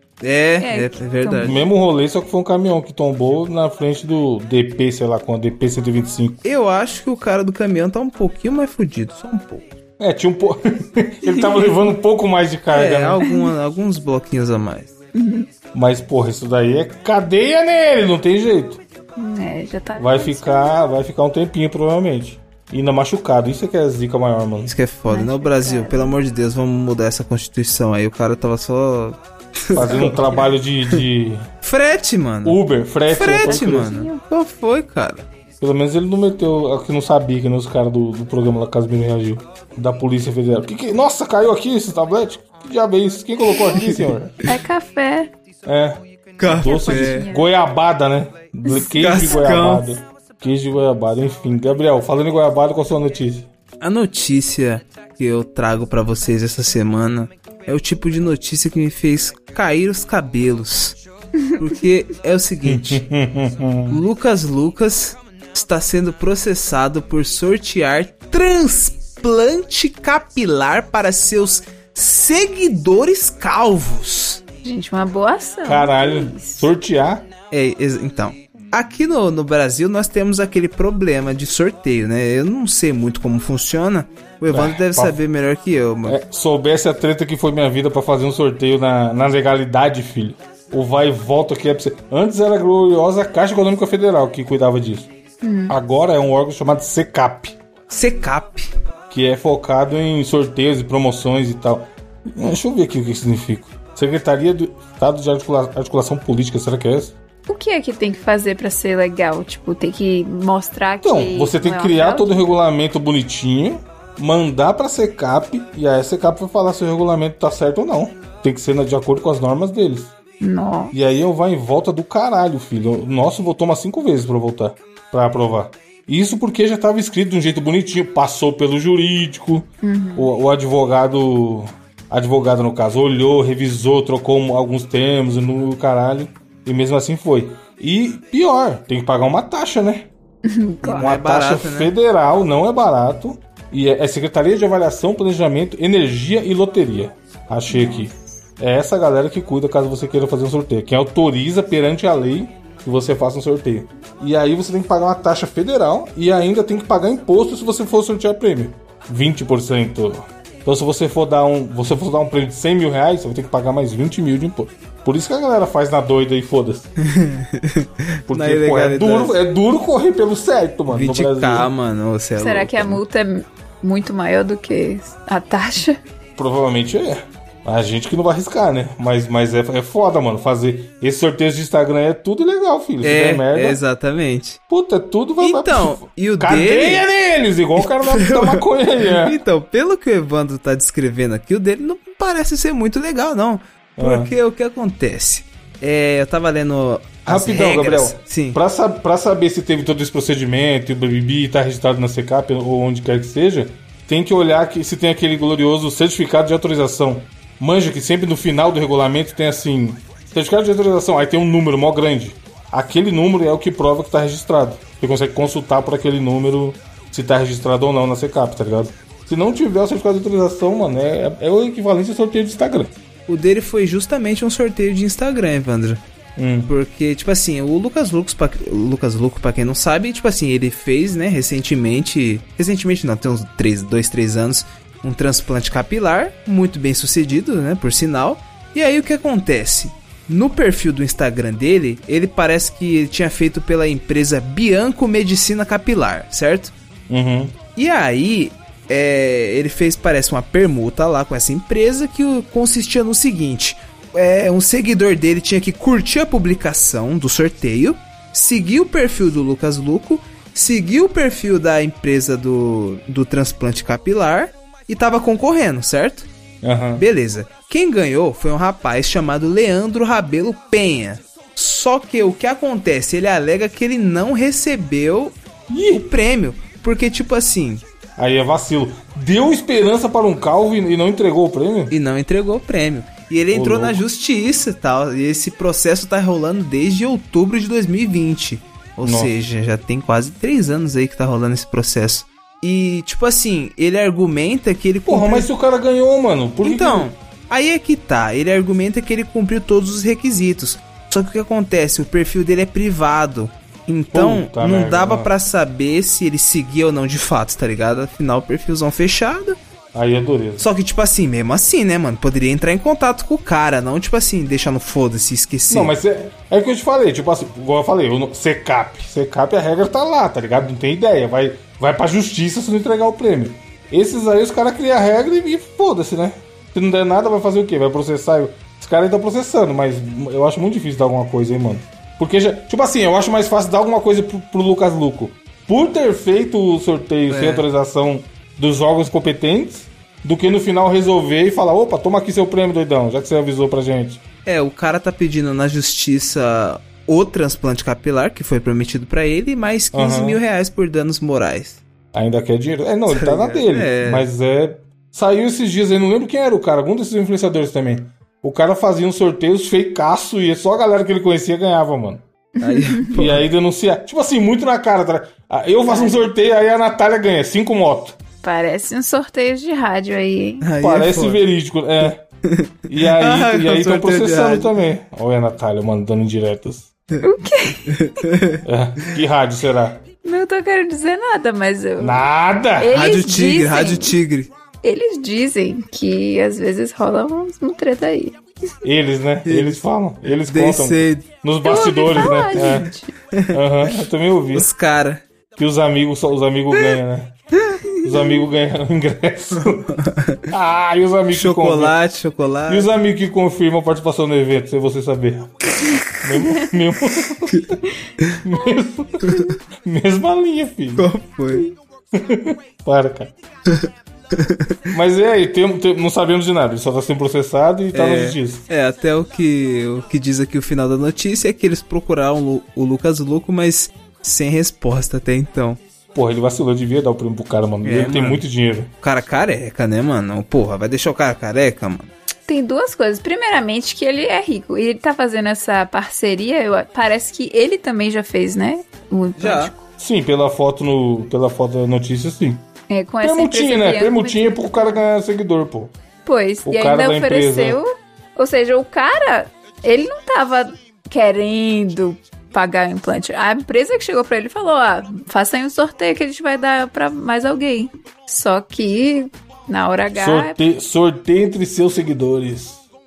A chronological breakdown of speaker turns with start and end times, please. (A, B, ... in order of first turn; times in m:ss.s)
0:00.2-0:01.6 A
0:00.6-0:01.6 B
0:01.4-0:06.4 C
0:06.4-0:09.7 A
0:10.0-0:13.2 C
0:12.7-0:14.9 A
0:15.1-0:15.5 B
0:15.7-0:18.8 C
0:19.2-0:20.8 B
0:20.0-0:24.7 C
0:24.7-0:31.0 A
0:25.1-0:26.2 B
0:29.7-0:31.5 C
0:29.8-0:30.1 B
0:31.6-0:35.3 A
0:32.4-0:33.9 C
0:33.4-0:34.2 B
0:35.6-0:44.4 C
0:43.7-0:44.1 A
0:44.4-0:45.3 B
0:45.6-0:53.5 C
0:46.4-0:47.3 A
0:46.5-0:47.5 B
0:48.7-0:49.2 B
0:48.9-0:49.9 A
0:53.8-1:01.0 A
1:01.6-1:03.0 A
1:02.6-1:04.0 C
1:03.9-1:14.4 A
1:14.6-1:16.7 B
1:15.6-1:17.3 C
1:17.5-1:26.2 A
1:24.5-1:25.2 C
1:26.1-1:35.1 C
1:35.4-1:35.8 B
1:35.7-1:37.6 C
1:37.9-1:38.7 A
1:39.1-1:47.2 C
1:47.5-1:52.5 B
1:51.0-2:00.1 C
2:00.4-2:00.9 B
2:00.9-2:20.1 C
2:09.8-2:10.3 B
2:20.4-2:21.1 B
2:20.8-2:21.9 A
2:20.9-2:46.9 C
2:27.7-2:28.1 B
2:47.0-2:49.4 A
2:48.3-2:51.7 C
2:50.9-2:53.0 A
2:52.4-2:56.0 B
2:56.4-3:03.8 C
3:03.0-3:04.6 A
3:04.7-3:09.4 C
3:05.4-3:07.1 A
3:07.8-3:18.6 A
3:14.0-3:14.3 C
3:17.3-3:42.9 C
3:43.3-3:46.0 A
3:46.4-3:46.7 C
3:46.7-4:06.7 A
4:07.1-4:07.6 C
4:07.8-4:26.3 A
4:26.6-4:27.0 C
4:27.0-4:37.8 A
4:35.7-4:36.0 C
4:38.2-4:42.0 C
4:41.9-4:55.5 A
4:43.5-4:44.0 C
4:49.0-4:49.3 C
4:55.1-4:57.1 C
4:56.6-5:09.6 A
5:04.1-5:05.3 C
5:09.9-5:10.7 C
5:10.6-5:15.9 A
5:15.7-5:44.2 C
5:37.3-5:37.7 A
5:44.5-5:51.8 A
5:49.9-5:50.4 C
5:52.1-6:02.2 C
5:53.1-5:54.3 A
6:02.6-6:03.1 B
6:02.6-6:03.4 A
6:03.1-6:08.2 C
6:05.9-6:06.3 B
6:08.4-6:10.7 B
6:10.6-6:11.4 A
6:10.8-6:12.2 C
6:12.4-6:14.7 A
6:12.9-6:16.9 C
6:17.2-6:18.0 B
6:17.9-6:19.1 A
6:18.6-6:20.0 C
6:20.2-6:22.2 B
6:22.0-6:23.0 C
6:22.8-6:24.2 B
6:22.9-6:24.5 A
6:24.8-6:28.4 B
6:28.8-6:32.9 C
6:29.5-6:29.8 A
6:30.4-6:31.3 A
6:31.6-6:33.1 B
6:32.2-6:35.2 A
6:33.5-6:34.7 C
6:35.6-6:37.4 C
6:38.0-6:40.0 C
6:39.6-6:40.4 A
6:40.5-6:42.0 C
6:41.3-6:42.9 A
6:42.7-6:45.6 C
6:46.2-6:47.8 C
6:47.5-6:48.4 A
6:48.4-6:51.1 C
6:49.3-6:49.5 A
6:51.0-6:51.7 A
6:52.1-6:53.3 C
6:53.7-6:54.8 A
6:54.9-6:58.6 C
6:57.9-7:05.8 A
7:06.1-7:08.9 C
7:07.8-7:08.4 A
7:09.0-7:12.1 A
7:12.5-7:19.8 B
7:19.4-7:19.7 A
7:20.0-7:22.6 C
7:22.9-7:25.0 B
7:23.2-7:25.9 C
7:26.3-7:40.6 B
7:26.6-7:27.8 C
7:40.1-7:42.8 C